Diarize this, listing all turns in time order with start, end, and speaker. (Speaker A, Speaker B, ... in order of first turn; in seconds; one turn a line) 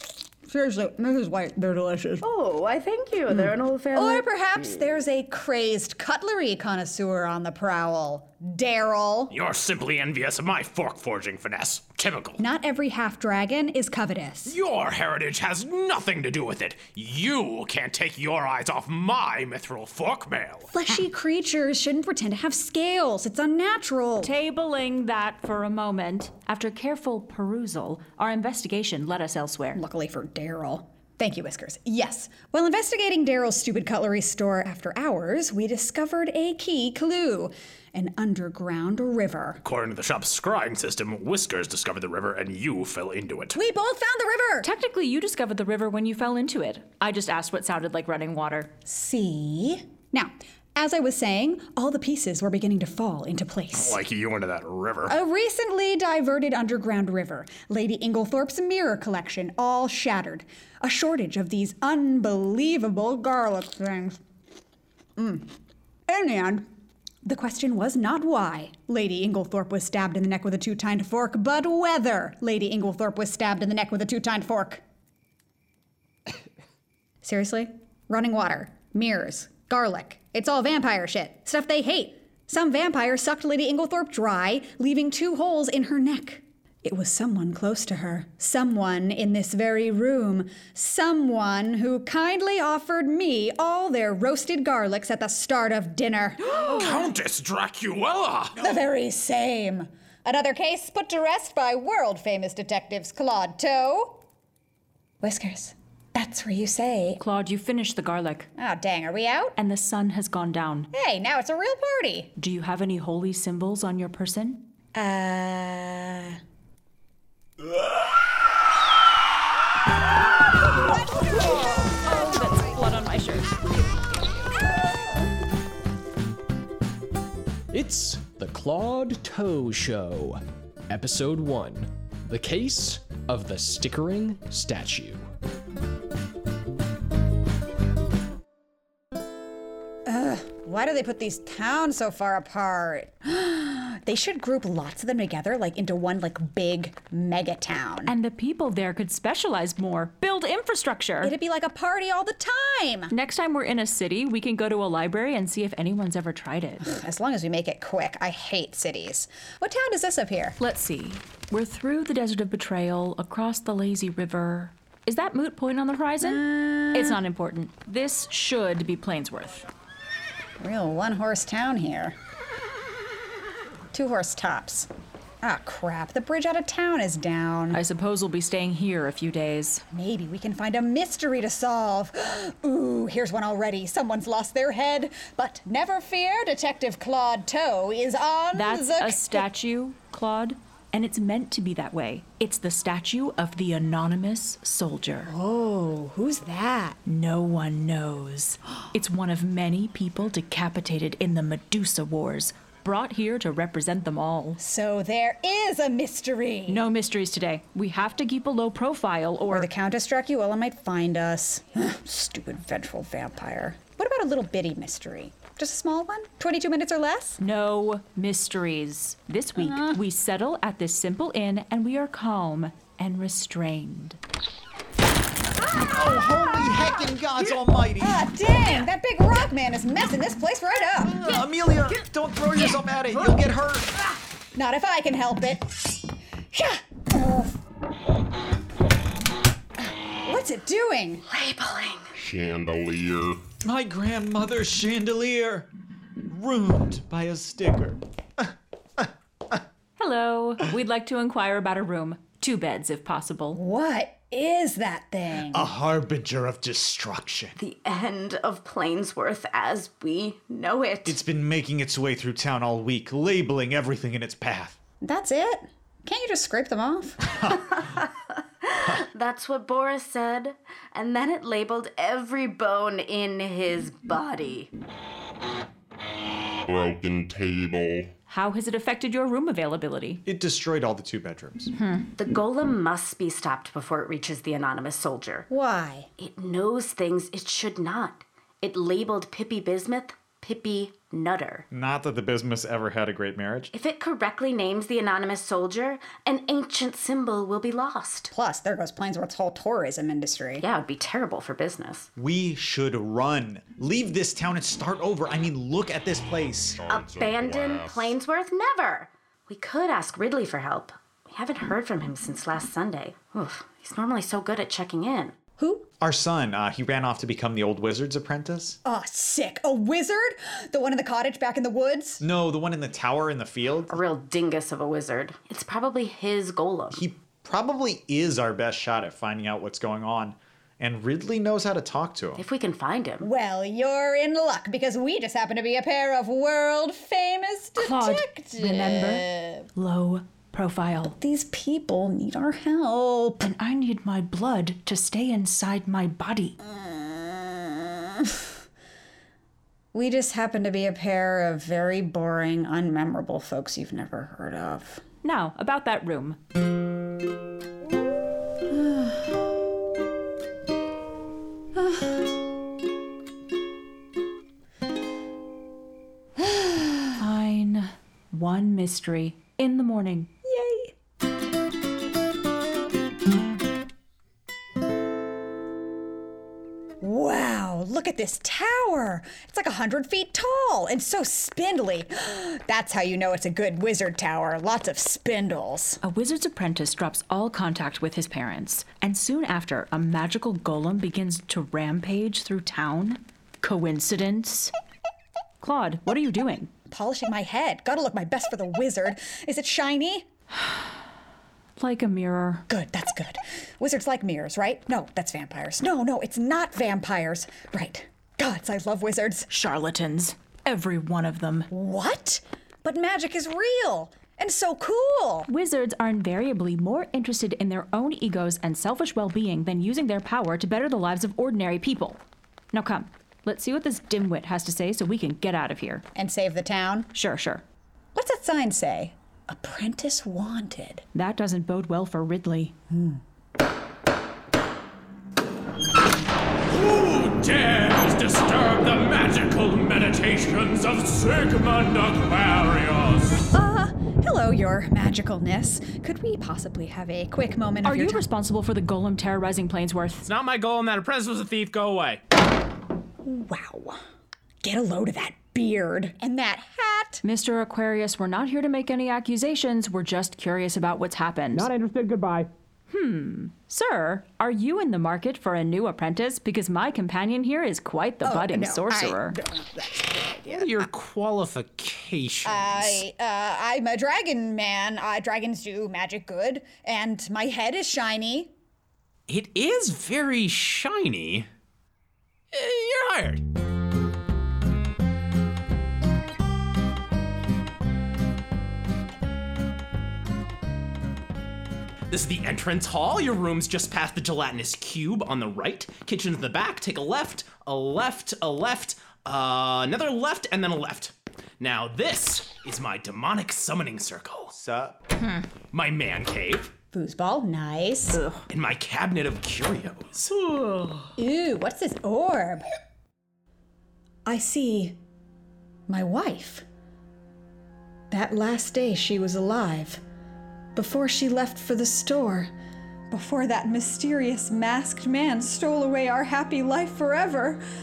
Speaker A: 0.5-2.2
Speaker B: 2.2-4.9
Speaker A: 3.3-9.3
Speaker C: 9.3-12.4
Speaker A: 12.4-14.6
Speaker C: 14.5-20.7
Speaker A: 20.7-24.3
Speaker D: 24.2-29.8
Speaker A: 29.8-39.6
Speaker C: 39.6-43.6
Speaker A: 43.5-44.7
Speaker D: 44.6-48.7
Speaker A: 48.9-54.0
Speaker C: 53.7-55.2
Speaker A: 55.1-64.2
Speaker A: 65.2-65.5
Speaker A: 66.1-66.7
Speaker A: 67.2-74.8
Speaker A: 77.2-97.2
Speaker C: 96.5-98.6
Speaker A: 98.6-104.2
Speaker A: 105.2-107.2
Speaker D: 107.2-108.5
Speaker A: 108.6-109.6
Speaker D: 109.6-110.9
Speaker A: 110.9-112.3
Speaker D: 112.4-114.6
Speaker A: 115.0-116.4
Speaker D: 122.0-123.5
Speaker E: 127.7-135.2
Speaker A: 140.1-148.1
Speaker D: 148.1-151.3
Speaker A: 151.2-153.1
Speaker D: 153.1-156.8
Speaker A: 156.8-160.6
Speaker D: 160.6-169.7
Speaker A: 166.2-167.2
Speaker A: 170.6-172.2
Speaker A: 173.9-174.9
Speaker A: 175.4-177.8
Speaker D: 177.7-179.8
Speaker A: 179.9-189.5
Speaker D: 188.5-195.3
Speaker A: 195.3-197.0
Speaker D: 197.1-204.6
Speaker A: 204.6-206.8
Speaker D: 206.7-209.7
Speaker A: 209.5-217.4
Speaker D: 217.4-224.2
Speaker A: 219.6-220.0
Speaker F: 225.9-228.3
Speaker A: 228.0-231.4
Speaker F: 231.2-233.9
Speaker A: 234.6-235.7
Speaker A: 236.5-237.6
Speaker A: 240.2-241.2
Speaker B: 241.3-242.2
Speaker G: 242.2-243.4
Speaker F: 243.6-245.7
Speaker F: 246.3-249.1
Speaker D: 250.0-253.6
Speaker A: 253.5-255.7
Speaker F: 255.5-257.6
Speaker B: 257.6-261.2
Speaker F: 261.1-264.8
Speaker A: 265.0-267.2
Speaker B: 267.5-274.7
Speaker G: 276.7-278.1
Speaker D: 278.3-280.2
Speaker F: 280.3-281.7
Speaker D: 281.8-282.1
Speaker B: 282.2-285.5
Speaker A: 285.5-286.1
Speaker B: 286.2-291.7
Speaker F: 291.7-293.7
Speaker B: 293.7-298.3
Speaker A: 298.3-300.6
Speaker B: 300.6-302.1
Speaker F: 302.2-306.8
Speaker G: 306.8-308.1
Speaker B: 306.9-315.4
Speaker A: 315.6-315.9
Speaker F: 316.0-318.8
Speaker A: 318.9-322.2
Speaker F: 322.2-324.0
Speaker B: 323.9-327.1
Speaker F: 326.9-332.4
Speaker B: 332.4-333.3
Speaker A: 333.2-339.6
Speaker D: 337.8-341.2
Speaker A: 341.2-343.5
Speaker D: 343.4-346.6
Speaker A: 346.6-348.4
Speaker A: 349.9-355.0
Speaker D: 355.2-356.4
Speaker A: 358.7-359.4
Speaker A: 361.8-362.1
Speaker A: 366.4-367.1
Speaker D: 367.2-370.3
Speaker A: 370.4-370.9
Speaker A: 377.0-386.0
Speaker D: 386.0-394.7
Speaker D: 395.6-396.7
Speaker A: 396.9-400.3
Speaker D: 400.6-400.9
Speaker D: 401.8-402.7
Speaker A: 402.7-409.5
Speaker D: 409.5-411.7
Speaker A: 411.7-415.5
Speaker D: 415.5-422.2
Speaker D: 422.7-426.1
Speaker A: 426.2-427.1
Speaker D: 427.1-427.6
Speaker A: 428.1-431.0
Speaker D: 431.1-432.8
Speaker A: 432.9-433.2
Speaker C: 436.7-443.5
Speaker A: 443.5-448.2
Speaker D: 447.8-450.3
Speaker C: 450.2-452.2
Speaker A: 453.2-454.0
Speaker A: 454.6-457.2
Speaker D: 457.2-461.7
Speaker C: 461.5-462.5
Speaker D: 462.9-469.4
Speaker A: 468.2-470.9
Speaker C: 470.5-473.1
Speaker A: 472.4-478.5
Speaker C: 479.3-481.5
Speaker C: 482.5-483.4
Speaker C: 492.1-504.5
Speaker F: 504.5-505.0
Speaker C: 505.7-506.7
Speaker A: 506.9-508.2
Speaker D: 508.1-508.4
Speaker C: 508.5-510.3
Speaker D: 510.3-511.1
Speaker A: 511.2-512.6
Speaker A: 514.3-515.0
Speaker A: 515.9-516.6
Speaker A: 518.1-520.0
Speaker A: 520.8-522.5
Speaker A: 523.1-527.6